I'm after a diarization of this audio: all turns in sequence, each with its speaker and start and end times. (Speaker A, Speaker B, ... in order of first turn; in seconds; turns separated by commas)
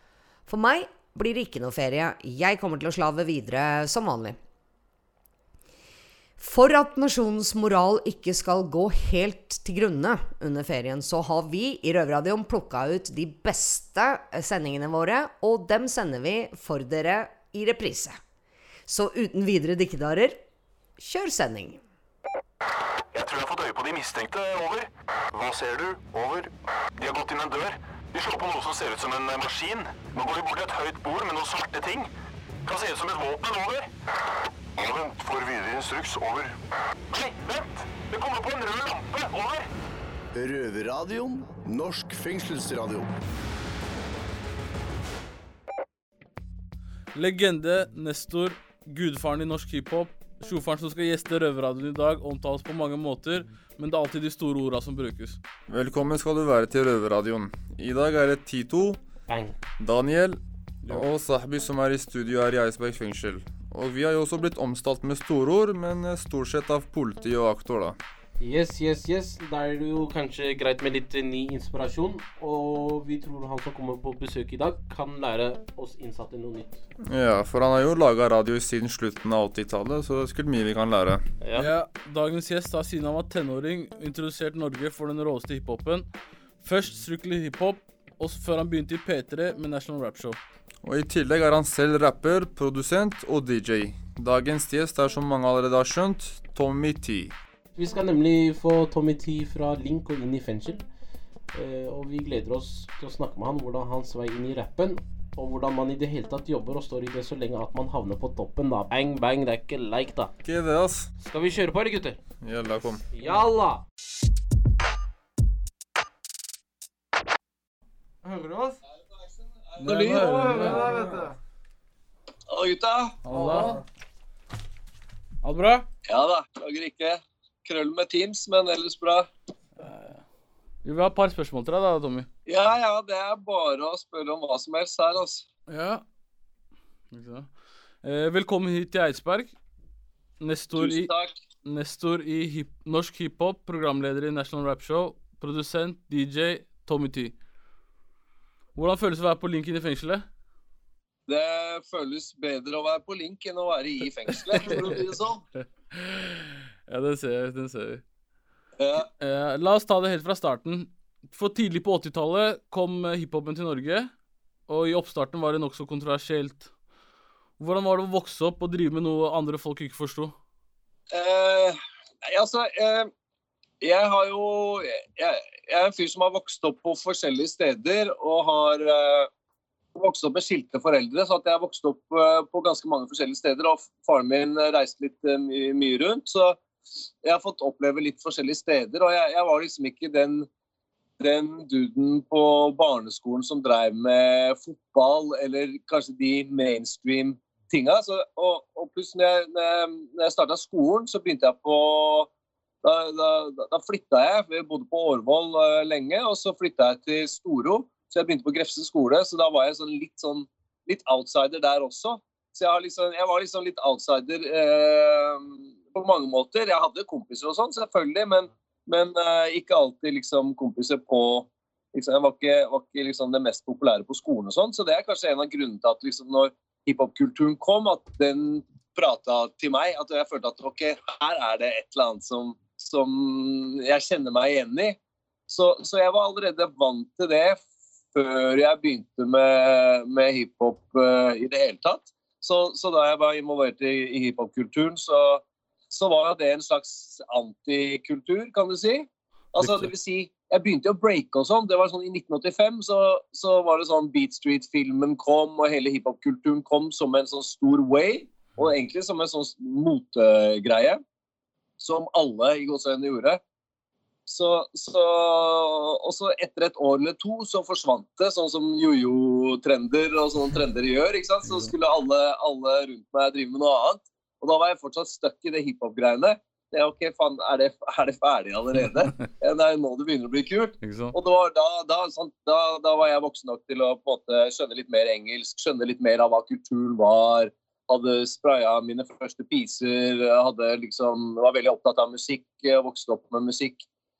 Speaker A: 0.5-4.4, Speaker A: 6.4-18.2, Speaker A: 18.9-20.4, Speaker A: 21.0-21.8, Speaker B: 23.1-32.1, Speaker B: 32.6-33.9, Speaker B: 34.8-36.5, Speaker B: 37.1-39.7, Speaker C: 40.3-43.1, Speaker D: 47.1-55.4, Speaker E: 55.7-59.0, Speaker F: 59.3-59.6, Speaker E: 59.8-68.0, Speaker F: 68.4-76.8, Speaker E: 77.0-81.2, Speaker F: 81.4-81.7, Speaker D: 81.5-86.1, Speaker D: 86.6-90.4, Speaker E: 90.8-97.3, Speaker F: 97.8-100.8, Speaker F: 101.5-110.3, Speaker E: 110.4-111.1, Speaker F: 111.2-112.2, Speaker E: 112.4-113.0, Speaker F: 113.1-113.8, Speaker F: 118.2-118.8, Speaker G: 119.8-120.5, Speaker D: 119.8-121.3, Speaker F: 120.1-121.3, Speaker G: 122.5-123.2, Speaker D: 123.2-123.8, Speaker F: 123.3-123.8, Speaker D: 125.4-125.9, Speaker G: 126.0-129.3, Speaker D: 129.8-130.2, Speaker D: 130.8-132.3, Speaker G: 132.5-135.4, Speaker D: 135.7-136.0, Speaker D: 137.1-137.5, Speaker D: 138.0-139.5, Speaker D: 140.4-141.1, Speaker G: 140.8-141.3, Speaker D: 141.6-147.3, Speaker D: 148.7-150.2, Speaker G: 151.3-155.4, Speaker D: 154.5-155.0, Speaker D: 155.9-158.0, Speaker G: 158.8-159.1, Speaker D: 159.2-164.1, Speaker D: 164.7-166.7, Speaker D: 167.6-170.3, Speaker G: 171.1-173.1, Speaker G: 173.8-179.3, Speaker G: 179.9-186.6, Speaker G: 187.2-190.5, Speaker G: 191.2-202.3, Speaker G: 202.8-237.6, Speaker G: 238.1-261.0, Speaker D: 249.6-249.9, Speaker G: 261.8-263.4, Speaker G: 264.2-293.8, Speaker D: 271.4-271.7, Speaker D: 280.8-281.1